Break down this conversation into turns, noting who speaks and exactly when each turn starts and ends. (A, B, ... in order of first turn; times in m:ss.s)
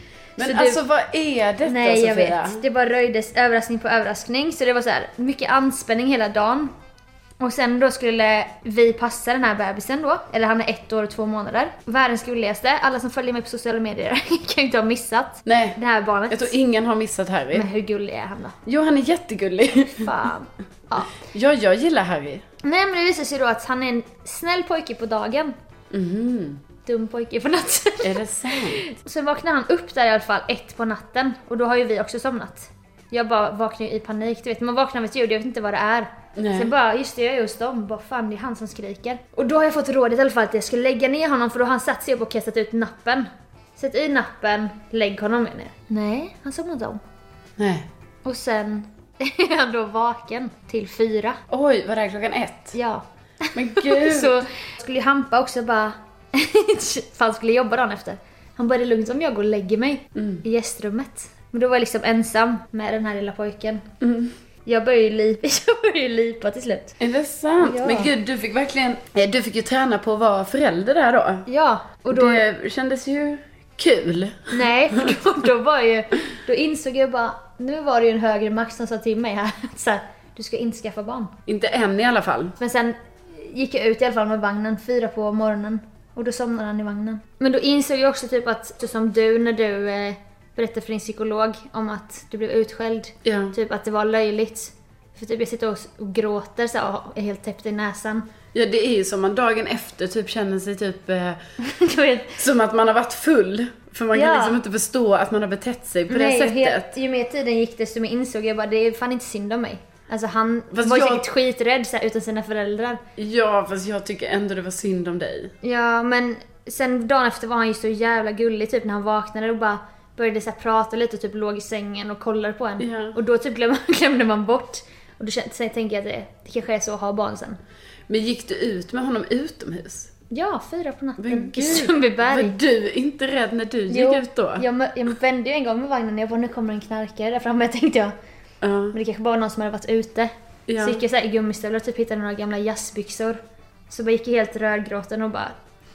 0:00.4-0:02.6 A
0:00.4-0:00.8 B
0:01.6-0:06.7 B
0:07.4-0:16.5 B
0:15.4-0:17.7 A
0:17.5-0:18.5 B
0:18.6-0:20.1 A
0:20.0-0:21.2 B
0:21.2-0:22.4 A
0:22.6-0:25.5 B
0:25.9-0:26.6 A
0:26.8-0:28.2 B
0:28.0-0:28.8 A
0:28.7-0:47.0 B
0:36.4-0:36.7 A
0:47.6-0:47.9 A
0:48.2-0:51.4 B
0:51.5-0:52.8 A
0:52.7-1:03.8 B
0:53.5-0:54.4 A
1:00.2-1:00.4 A
1:04.0-1:04.3 A
1:04.6-1:06.9 B
1:07.0-1:11.5 A
1:07.6-1:08.1 B
1:11.5-1:12.4 B
1:12.1-1:15.2 A
1:14.5-1:21.3 B
1:21.5-1:22.6 A
1:22.6-1:38.3 B
1:33.2-1:33.6 A
1:38.5-1:41.4 A
1:41.6-1:42.4 B
1:42.4-1:47.0 A
1:44.1-1:44.6 B
1:46.1-1:53.0 B
1:50.7-1:51.3 A
1:53.2-1:55.5 A
1:55.6-2:07.6 B
2:02.8-2:03.2 A
2:08.1-2:10.1 A
2:10.3-2:12.6 B
2:11.2-2:14.7 A
2:13.9-2:18.1 B
2:18.6-2:19.0 A
2:18.9-2:23.4 B
2:20.7-2:21.0 A
2:23.9-2:25.5 B